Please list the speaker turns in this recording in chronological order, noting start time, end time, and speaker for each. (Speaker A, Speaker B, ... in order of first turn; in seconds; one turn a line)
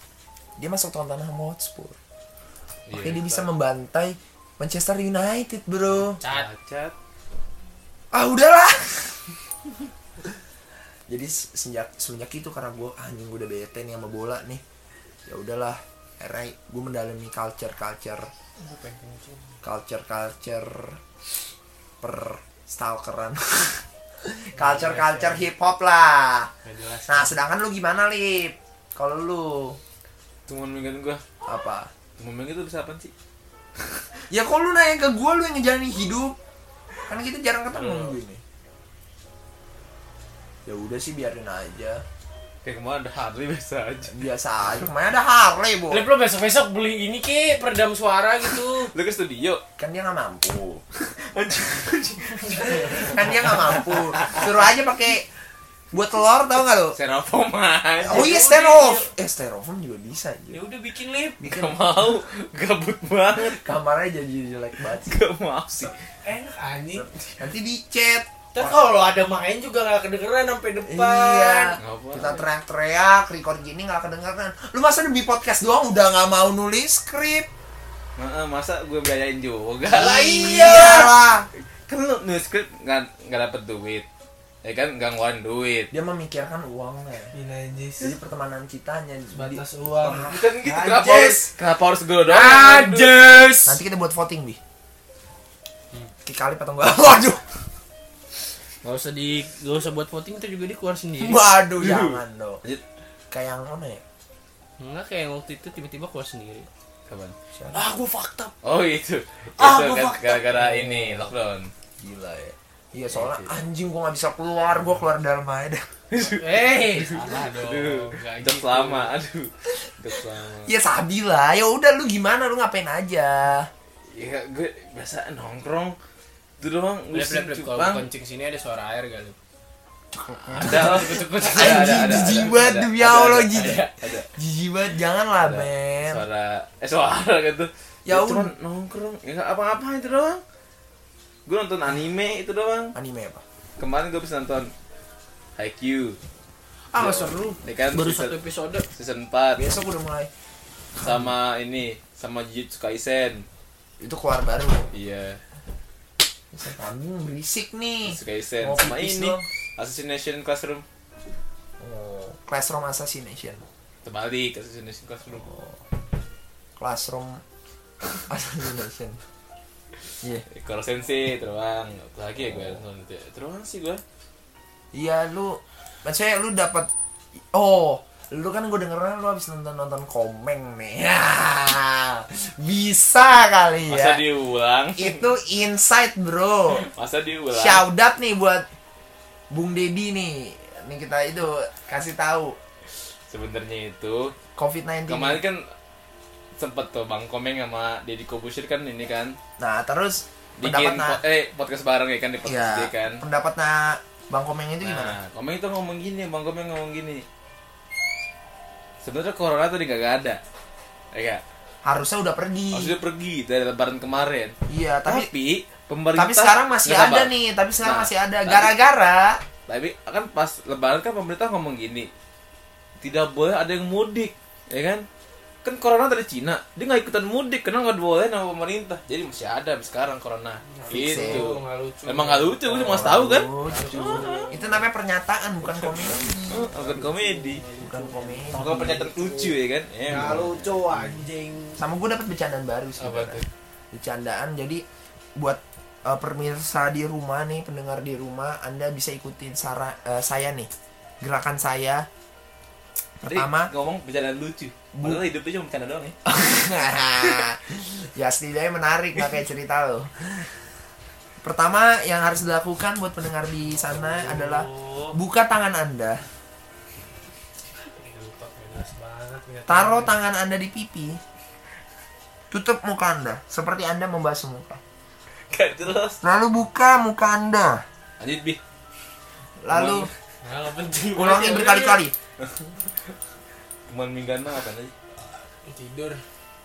Speaker A: 0.6-2.0
Speaker B: 2.9-3.5
Speaker A: 2.9-6.2
Speaker B: 6.1-6.9
Speaker C: 6.2-6.5
Speaker A: 8.1-9.2
Speaker A: 11.1-14.6
Speaker A: 15.2-18.3
Speaker C: 18.6-19.5
Speaker A: 19.6-21.0
Speaker A: 22.0-26.5
Speaker C: 24.6-25.5
Speaker C: 26.6-27.4
Speaker A: 27.1-29.8
Speaker B: 30.5-31.2
Speaker A: 31.4-31.9
Speaker B: 32.2-33.1
Speaker A: 34.3-36.4
Speaker A: 37.1-38.4
Speaker B: 37.7-38.1
Speaker A: 40.6-42.0
Speaker B: 42.6-44.1
Speaker A: 44.1-46.0
Speaker C: 45.9-48.9
Speaker B: 48.8-49.6
Speaker A: 49.8-50.8
Speaker B: 51.0-54.5
Speaker C: 52.4-53.1
Speaker A: 52.8-55.3
Speaker A: 55.9-57.0
Speaker B: 56.9-58.3
Speaker A: 58.0-60.6
Speaker C: 58.0-59.1
Speaker C: 60.5-61.4
Speaker B: 61.4-63.6
Speaker A: 61.4-61.8
Speaker A: 63.3-65.2
Speaker B: 64.9-65.9
Speaker C: 66.2-67.1
Speaker A: 67.0-68.7
Speaker C: 68.5-71.8
Speaker A: 70.8-77.5
Speaker B: 71.8-72.4
Speaker B: 78.2-81.1
Speaker A: 79.9-81.5
Speaker C: 79.9-81.1
Speaker B: 81.9-84.0
Speaker B: 84.6-85.9
Speaker A: 85.9-87.3
Speaker C: 87.3-88.1
Speaker A: 88.0-90.4
Speaker C: 89.3-91.5
Speaker B: 90.1-93.2
Speaker C: 92.2-93.8
Speaker A: 93.7-94.6
Speaker A: 96.2-97.4
Speaker C: 98.8-101.4
Speaker A: 101.2-102.6
Speaker B: 101.8-102.8
Speaker A: 103.3-104.0
Speaker C: 104.8-106.7
Speaker B: 107.1-107.3
Speaker A: 107.5-107.8
Speaker C: 107.7-108.5
Speaker B: 108.6-111.7
Speaker C: 109.6-111.3
Speaker A: 112.0-115.9
Speaker B: 113.1-113.5
Speaker B: 116.1-120.7
Speaker C: 116.2-119.1
Speaker A: 120.7-123.7
Speaker B: 124.1-126.0
Speaker B: 126.6-128.1
Speaker C: 127.1-129.3
Speaker A: 130.1-133.8
Speaker B: 130.5-134.3
Speaker C: 130.6-132.5
Speaker C: 133.5-133.9
Speaker A: 134.3-136.2
Speaker B: 135.4-140.4
Speaker A: 138.1-138.5
Speaker B: 141.4-142.9
Speaker A: 142.9-143.4
Speaker B: 143.8-144.7
Speaker B: 145.6-146.2
Speaker A: 146.9-147.6
Speaker B: 146.9-148.3
Speaker C: 147.9-148.9
Speaker B: 148.9-149.7
Speaker A: 149.6-150.3
Speaker B: 151.0-153.5
Speaker A: 154.0-154.9
Speaker B: 154.9-155.4
Speaker A: 156.5-159.4
Speaker B: 158.1-160.8
Speaker A: 161.8-163.6
Speaker B: 164.0-165.5
Speaker A: 165.4-165.8
Speaker A: 166.8-167.4
Speaker A: 168.3-169.2
Speaker B: 170.5-174.0
Speaker A: 174.9-176.9
Speaker A: 177.5-184.2
Speaker B: 183.9-185.2
Speaker A: 185.0-186.8
Speaker B: 186.7-187.8
Speaker A: 187.5-188.7
Speaker A: 189.5-192.6
Speaker B: 193.3-194.3
Speaker A: 194.6-195.4
Speaker B: 195.1-195.6
Speaker B: 196.6-199.4
Speaker A: 199.6-201.2
Speaker B: 200.6-203.2
Speaker A: 202.4-205.2
Speaker B: 204.8-207.2
Speaker B: 209.0-210.4
Speaker B: 211.1-211.4
Speaker A: 211.8-212.9
Speaker B: 212.7-218.8
Speaker A: 214.7-215.3
Speaker A: 216.1-219.4
Speaker B: 219.7-222.1
Speaker B: 223.0-225.1
Speaker B: 225.6-234.7
Speaker C: 230.6-233.0
Speaker A: 230.9-231.5
Speaker A: 232.7-236.4
Speaker C: 233.6-234.8
Speaker C: 235.6-241.8
Speaker B: 236.5-237.6
Speaker A: 237.8-239.0
Speaker B: 238.5-240.5
Speaker A: 240.1-241.1
Speaker A: 241.8-244.8
Speaker B: 243.0-243.5
Speaker A: 245.3-250.7
Speaker A: 251.2-252.1
Speaker A: 253.2-253.7
Speaker B: 253.2-256.2
Speaker A: 254.9-255.2
Speaker A: 256.2-260.5
Speaker A: 261.4-266.2
Speaker C: 263.7-265.2
Speaker C: 267.8-270.1
Speaker A: 269.7-271.2
Speaker A: 272.5-274.8
Speaker B: 275.5-276.2
Speaker A: 276.2-277.8
Speaker B: 278.2-278.6
Speaker A: 279.6-280.1
Speaker B: 279.7-280.1
Speaker C: 280.4-282.0
Speaker A: 281.1-282.1
Speaker B: 282.4-282.7
Speaker B: 283.9-284.9
Speaker C: 285.6-286.2